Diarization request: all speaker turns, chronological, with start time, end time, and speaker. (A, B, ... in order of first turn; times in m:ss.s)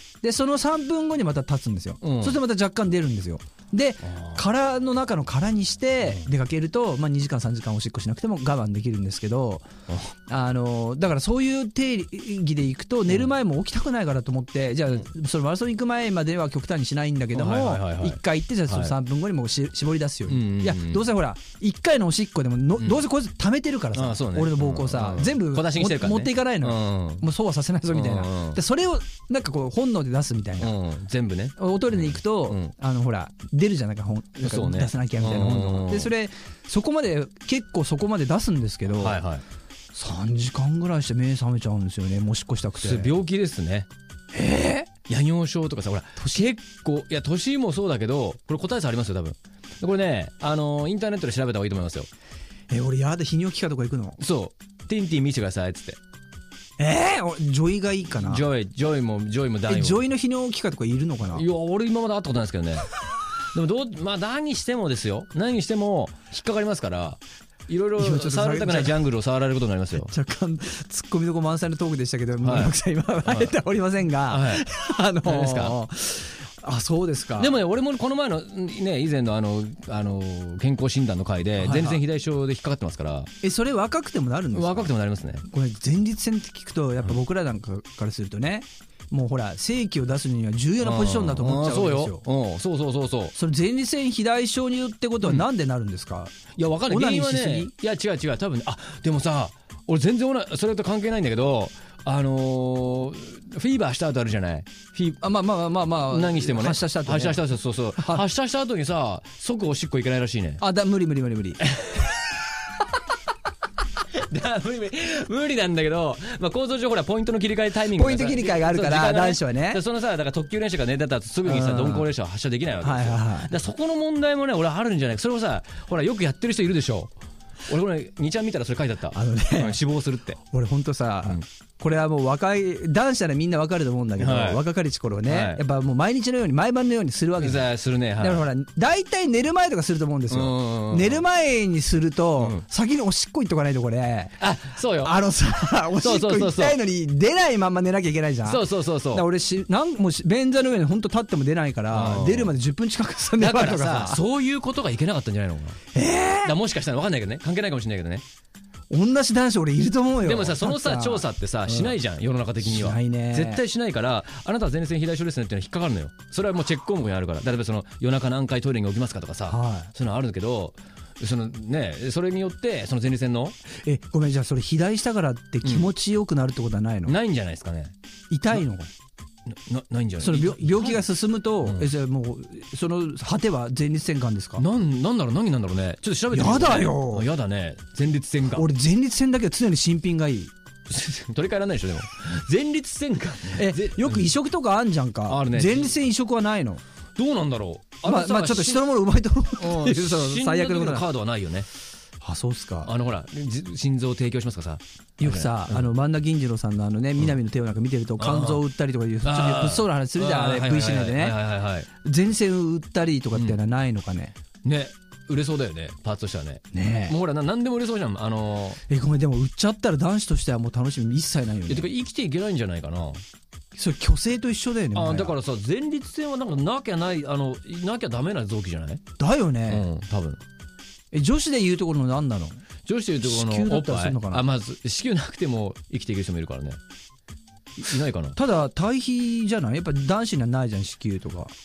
0:00.2-0:09.6 A
0:02.0-0:02.4 B
0:04.0-0:04.4 B
0:10.3-0:30.7 A
0:17.3-0:18.9 B
0:20.3-0:21.1 B
0:23.9-0:27.3 B
0:27.9-0:28.6 B
0:30.6-0:32.7 B
0:31.6-0:39.2 A
0:34.4-0:36.1 B
0:38.9-0:39.4 B
0:39.9-0:43.2 A
0:42.8-0:43.9 B
0:44.3-0:44.9 A
0:45.1-0:52.1 B
0:46.2-0:46.5 A
0:52.7-0:54.2 A
0:54.2-0:56.0 B
0:56.8-0:58.4 A
0:58.1-1:00.0 B
0:59.7-1:01.4 A
1:01.3-1:02.9 B
1:03.5-1:10.1 B
1:08.0-1:09.0 A
1:09.9-1:17.5 A
1:12.4-1:13.6 B
1:14.2-1:14.7 B
1:15.2-1:15.8 B
1:17.4-1:23.3 B
1:21.6-1:22.0 A
1:23.4-1:24.9 A
1:24.5-1:25.4 B
1:25.4-1:32.2 A
1:30.8-1:33.3 B
1:33.3-1:36.4 A
1:36.6-1:45.2 B
1:36.9-1:37.7 A
1:45.2-1:47.4 A
1:46.1-1:50.6 B
1:48.0-1:48.2 A
1:50.6-1:51.6 A
1:51.6-1:52.2 B
1:54.1-2:07.1 B
1:57.9-1:59.8 A
2:01.4-2:02.1 A
2:02.8-2:03.5 A
2:07.7-2:10.4 B
2:09.1-2:09.8 A
2:10.5-2:24.4 A
2:14.2-2:14.7 B
2:15.2-2:15.6 B
2:17.4-2:18.4 B
2:20.3-2:21.2 B
2:22.4-2:22.6 B
2:24.4-2:25.2 B
2:25.0-2:34.2 A
2:26.0-2:26.8 B
2:28.4-2:29.2 B
2:31.9-2:32.6 B
2:33.4-2:35.8 B
2:35.9-2:36.5 A
2:36.4-2:38.2 B
2:38.9-2:42.0 A
2:40.2-2:53.6 B
2:42.6-2:43.6 A
2:49.5-2:49.9 A
2:53.8-2:57.1 A
2:55.6-2:55.9 B
2:57.0-2:57.9 B
2:58.3-2:58.9 A
2:59.5-3:01.1 B
3:00.2-3:04.6 A
3:01.6-3:01.9 B
3:04.6-3:08.7 B
3:06.3-3:07.3 A
3:08.5-3:10.5 A
3:10.9-3:14.3 B
3:13.5-3:16.8 A
3:15.3-3:16.0 B
3:17.2-3:18.8 B
3:18.0-3:21.1 A
3:19.6-3:21.7 B
3:22.2-3:22.9 A
3:22.8-3:25.9 B
3:25.2-3:31.4 A
3:28.2-3:28.6 B
3:29.2-3:31.9 B
3:32.0-3:34.3 A
3:34.6-3:38.8 B
3:36.7-3:37.2 A
3:38.9-3:41.9 A
3:41.7-3:43.2 B
3:43.7-3:45.4 A
3:44.9-3:49.0 B
3:49.2-3:49.9 A
3:49.7-3:50.4 B
3:51.1-3:52.6 A
3:52.8-3:56.8 B
3:53.2-3:54.4 A
3:57.8-3:58.4 B
3:58.3-4:01.5 A